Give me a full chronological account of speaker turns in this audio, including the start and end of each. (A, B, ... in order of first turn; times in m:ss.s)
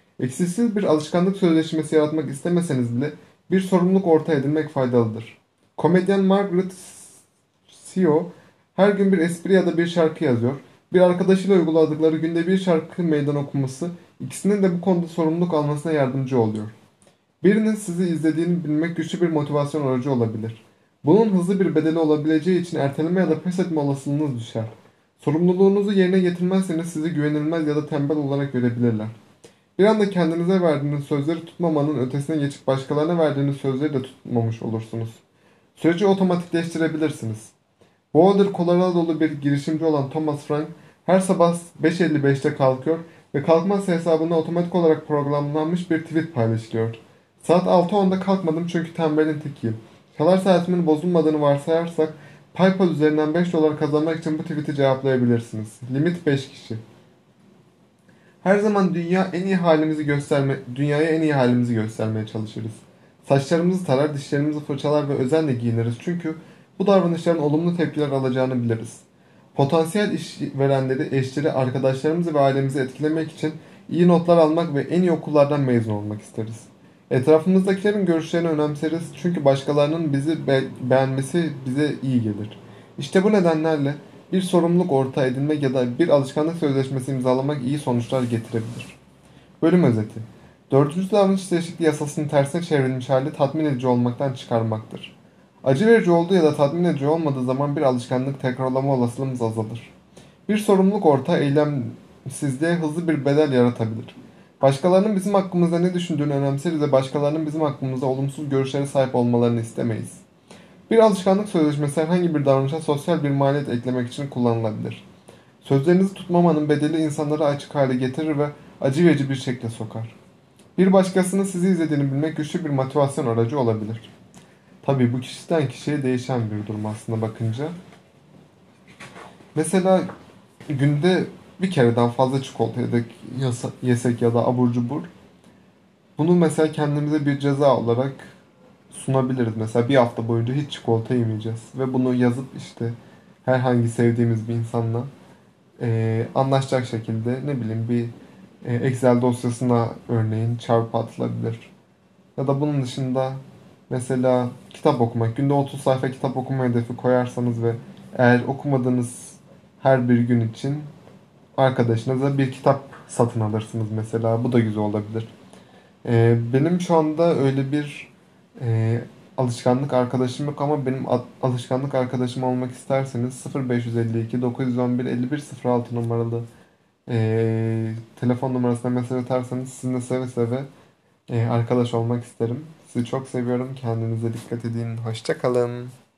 0:00.2-0:16.7 A
0:17.4-0:29.1 A
0:29.8-0:35.2 A
0:35.8-0:37.5 A
0:38.1-0:56.8 A
0:58.4-1:29.0 A
1:29.6-1:39.9 A
1:40.5-1:50.2 A
1:50.9-1:55.0 A
1:55.6-2:00.2 A
2:00.8-2:04.1 A
2:04.8-2:07.8 A
2:09.6-2:10.1 A
2:10.7-2:15.1 A
2:16.2-2:18.4 A
2:18.9-2:25.1 A
2:25.8-2:31.7 A
2:32.4-2:40.9 A
2:41.6-2:45.3 A
2:46.0-2:56.5 A
2:57.1-3:00.7 A
3:01.3-3:05.9 A